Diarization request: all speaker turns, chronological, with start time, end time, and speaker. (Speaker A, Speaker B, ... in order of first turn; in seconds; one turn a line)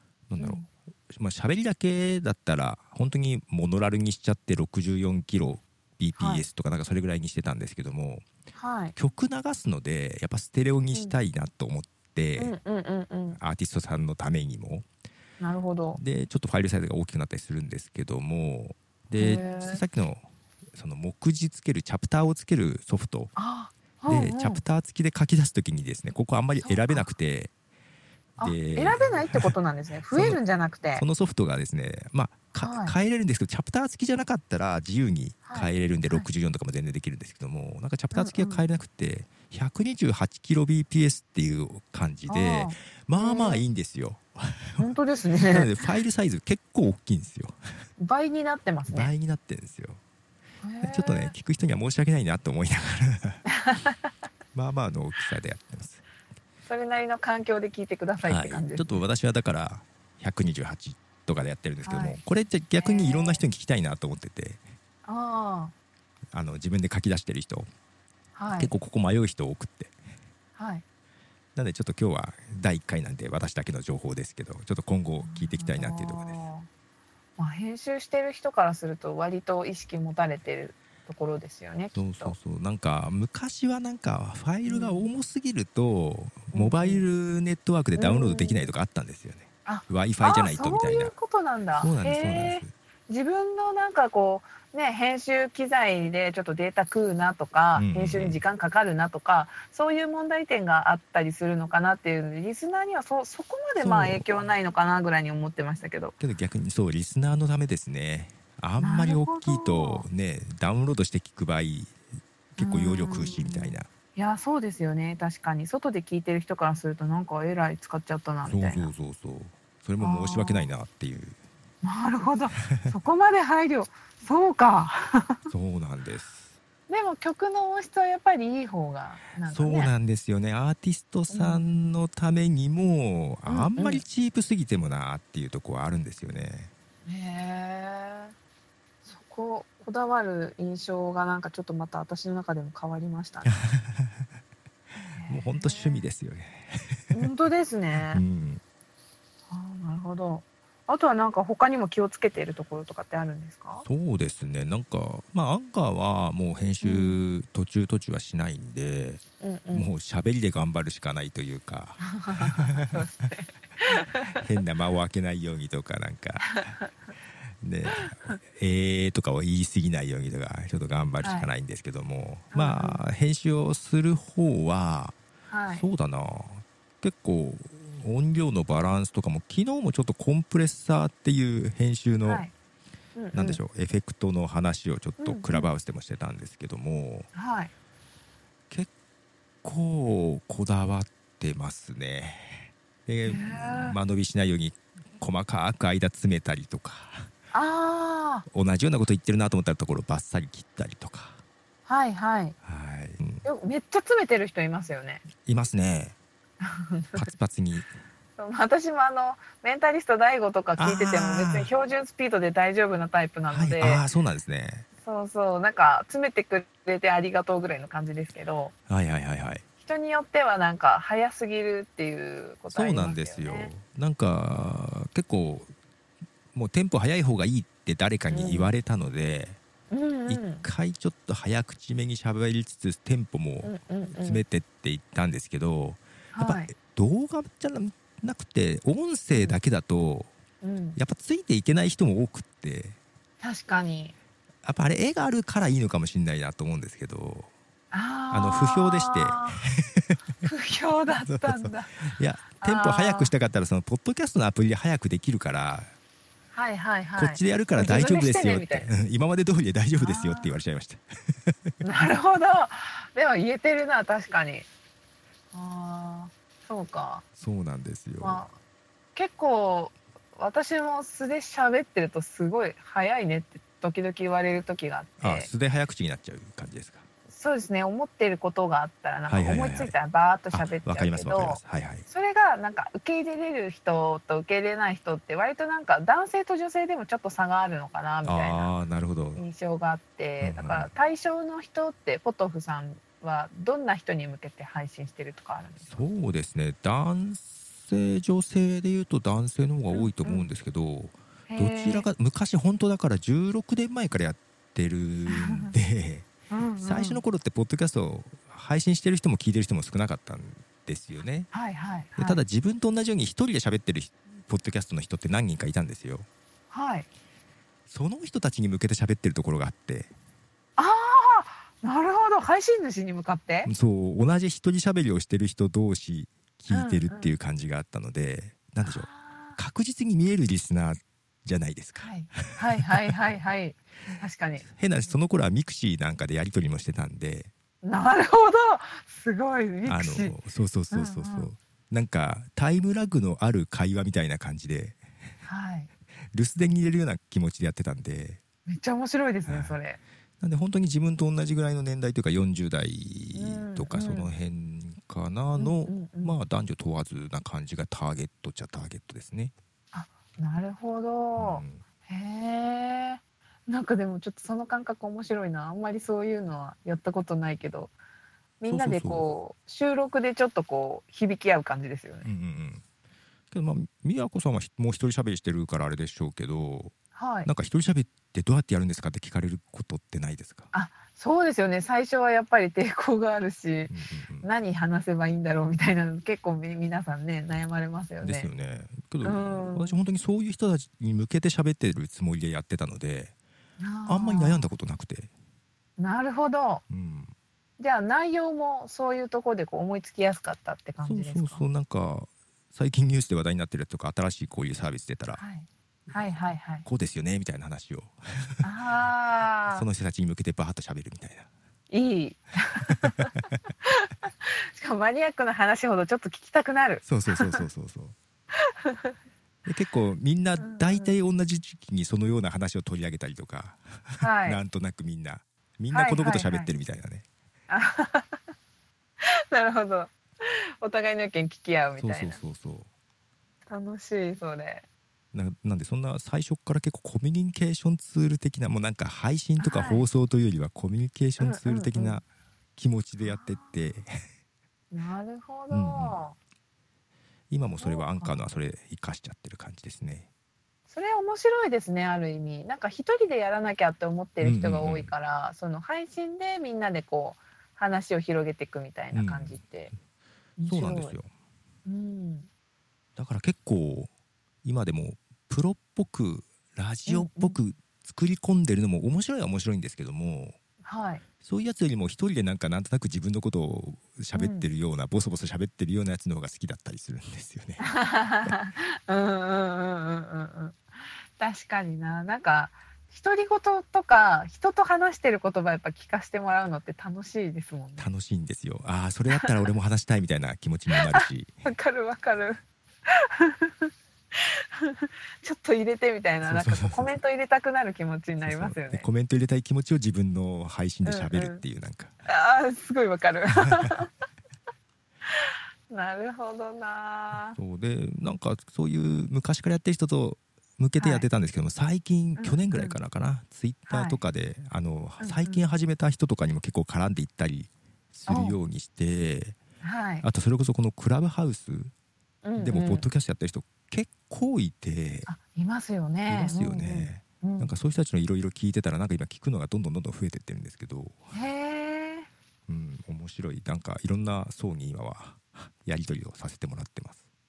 Speaker A: 0.3-8.3
Speaker B: 0.4-0.7
Speaker B: 6.2-6.5
Speaker B: 8.6-8.9
Speaker A: 9.0-12.6
Speaker B: 12.4-13.4
Speaker A: 13.3-14.9
Speaker B: 15.4-16.0
Speaker A: 15.9-23.3
Speaker B: 19.2-19.8
Speaker B: 23.4-24.6
Speaker A: 24.1-27.5
Speaker B: 26.6-27.1
Speaker B: 28.4-31.1
Speaker A: 28.4-29.6
Speaker A: 30.1-30.4
Speaker A: 30.9-47.6
Speaker B: 32.6-33.0
Speaker B: 35.5-36.3
Speaker B: 38.1-38.7
Speaker B: 42.3-43.6
Speaker B: 44.8-45.7
Speaker B: 48.0-49.1
Speaker A: 48.9-50.0
Speaker B: 50.6-51.4
Speaker A: 50.8-53.4
Speaker B: 53.5-54.1
Speaker A: 54.5-56.0
Speaker B: 56.7-59.0
Speaker A: 58.2-64.6
Speaker B: 61.8-62.2
Speaker B: 62.8-63.4
Speaker B: 65.0-65.7
Speaker A: 66.3-67.7
Speaker B: 68.3-68.7
Speaker A: 68.5-70.0
Speaker B: 70.6-70.8
Speaker A: 71.6-76.4
Speaker B: 75.2-76.7
Speaker B: 77.4-82.4
Speaker A: 82.0-91.1
Speaker B: 84.7-85.1
Speaker B: 86.5-87.1
Speaker B: 88.0-88.7
Speaker B: 89.7-106.2
Speaker A: 91.8-92.7
Speaker A: 97.8-98.4
Speaker A: 103.8-104.2
Speaker A: 106.2-112.0
Speaker B: 108.8-110.1
Speaker A: 112.6-113.9
Speaker B: 112.6-118.9
Speaker A: 118.5-121.4
Speaker B: 120.0-120.7
Speaker B: 121.8-125.4
Speaker A: 122.7-123.0
Speaker A: 125.5-126.5
Speaker B: 126.9-129.9
Speaker A: 129.4-136.7
Speaker B: 131.3-131.7
Speaker B: 133.5-134.0
Speaker B: 137.1-138.3
Speaker B: 139.0-143.6
Speaker A: 143.5-144.3
Speaker B: 145.0-146.1
Speaker A: 145.3-147.3
Speaker B: 147.1-148.2
Speaker A: 148.1-148.6
Speaker B: 149.5-153.9
Speaker A: 153.8-159.2
Speaker B: 156.8-157.3
Speaker B: 159.4-159.9
Speaker A: 159.7-163.0
Speaker B: 162.0-164.4
Speaker A: 164.3-166.8
Speaker B: 166.5-166.9
Speaker A: 167.5-175.2
Speaker B: 167.9-168.4
Speaker B: 171.2-171.5
Speaker B: 172.5-173.0
Speaker B: 175.5-175.9
Speaker A: 175.7-182.4
Speaker B: 182.2-182.5
Speaker B: 183.2-183.6
Speaker A: 183.3-187.3
Speaker B: 185.2-185.7
Speaker B: 187.3-187.7
Speaker A: 189.6-197.3
Speaker B: 193.3-194.0
Speaker B: 197.5-198.5
Speaker A: 198.5-201.4
Speaker B: 201.9-202.6
Speaker A: 202.6-203.4
Speaker B: 203.4-205.2
Speaker A: 205.3-206.2
Speaker B: 206.6-207.3
Speaker A: 207.1-207.9
Speaker B: 208.4-214.0
Speaker A: 210.8-211.7
Speaker A: 213.5-214.9
Speaker B: 215.0-218.7
Speaker A: 218.9-219.7
Speaker B: 219.8-223.7
Speaker A: 222.7-225.7
Speaker A: 226.5-229.6
Speaker B: 228.3-228.7
Speaker B: 229.9-230.7
Speaker A: 230.3-240.3
Speaker B: 233.6-234.4
Speaker B: 236.3-236.7
Speaker B: 240.6-241.0
Speaker A: 241.0-243.0
Speaker B: 243.4-244.2
Speaker A: 244.6-247.5
Speaker B: 247.9-249.6
Speaker A: 248.3-250.2
Speaker B: 250.4-252.0
Speaker A: 251.2-255.9
Speaker B: 252.6-253.3
Speaker B: 256.5-258.9
Speaker A: 257.2-261.7
Speaker B: 260.0-260.6
Speaker B: 261.8-264.7
Speaker B: 265.5-267.2
Speaker A: 267.4-268.4
Speaker B: 268.2-268.6
Speaker B: 269.1-275.5
Speaker A: 275.2-277.1
Speaker B: 277.3-288.7
Speaker A: 279.3-279.9
Speaker A: 280.5-282.1
Speaker A: 288.2-289.4
Speaker B: 289.4-296.1
Speaker A: 290.4-290.9
Speaker A: 295.9-306.3
Speaker B: 299.9-300.5
Speaker B: 301.5-302.1
Speaker B: 305.3-305.7
Speaker B: 306.5-307.2
Speaker A: 306.8-311.5
Speaker B: 311.5-312.4
Speaker A: 312.2-316.3
Speaker B: 316.7-317.1
Speaker A: 317.9-320.1
Speaker B: 320.8-323.7
Speaker A: 323.6-333.1
Speaker B: 326.7-327.3
Speaker B: 328.8-329.6
Speaker B: 332.0-334.7
Speaker A: 334.6-337.5
Speaker B: 337.8-340.4
Speaker A: 339.9-345.0
Speaker B: 340.9-341.5
Speaker B: 345.4-345.9
Speaker A: 346.3-348.4
Speaker B: 348.7-350.0
Speaker A: 349.5-349.8
Speaker A: 350.4-359.5
Speaker B: 353.3-354.3
Speaker B: 355.6-356.4
Speaker B: 359.9-367.9
Speaker A: 361.4-361.8
Speaker B: 368.6-372.3
Speaker A: 368.6-369.2
Speaker A: 372.2-372.8
Speaker A: 373.5-380.7
Speaker B: 377.1-377.5
Speaker B: 380.7-388.5
Speaker A: 383.9-384.5
Speaker A: 388.2-393.3
Speaker B: 389.2-390.0
Speaker B: 393.8-394.7
Speaker A: 394.1-395.3
Speaker B: 396.0-396.8
Speaker A: 396.9-397.3
Speaker B: 397.8-401.6
Speaker A: 401.0-405.4
Speaker B: 405.4-406.9
Speaker A: 406.9-408.6
Speaker B: 408.6-409.9
Speaker A: 409.7-411.5
Speaker B: 411.9-417.6
Speaker A: 417.0-418.2
Speaker B: 418.6-419.1
Speaker A: 419.6-427.3
Speaker B: 420.6-421.2
Speaker B: 424.2-424.6
Speaker B: 425.9-426.7
Speaker B: 427.7-428.4
Speaker B: 429.2-432.4
Speaker A: 432.0-432.9
Speaker B: 433.7-434.8
Speaker A: 435.3-442.2
Speaker B: 439.6-440.1
Speaker B: 441.4-442.2
Speaker A: 442.8-444.2
Speaker B: 443.2-443.7
Speaker B: 444.9-446.4
Speaker A: 445.7-446.2
Speaker A: 447.5-450.3
Speaker B: 447.8-448.4
Speaker B: 450.9-459.9
Speaker A: 454.4-455.1
Speaker A: 459.1-459.6
Speaker B: 460.6-461.2
Speaker A: 460.6-461.3
Speaker B: 461.9-462.5
Speaker A: 463.2-464.1
Speaker A: 464.6-470.6
Speaker B: 467.1-467.6
Speaker B: 470.8-471.2
Speaker A: 471.4-477.9
Speaker B: 474.3-474.7
Speaker B: 477.8-480.8
Speaker B: 481.4-488.1
Speaker A: 488.0-491.5
Speaker B: 491.0-499.1
Speaker A: 496.4-497.1
Speaker A: 498.4-502.1
Speaker B: 501.1-501.6
Speaker B: 502.2-504.1
Speaker A: 503.6-503.9
Speaker B: 505.3-507.6
Speaker A: 507.6-519.6
Speaker B: 511.0-511.3
Speaker B: 512.4-513.0
Speaker B: 513.9-514.2
Speaker B: 515.2-515.6
Speaker B: 518.3-518.6
Speaker B: 519.8-520.3
Speaker A: 520.2-521.9
Speaker B: 522.4-523.1
Speaker A: 522.6-525.3
Speaker B: 525.3-527.7
Speaker A: 526.3-531.2
Speaker B: 531.3-532.3
Speaker A: 532.7-537.2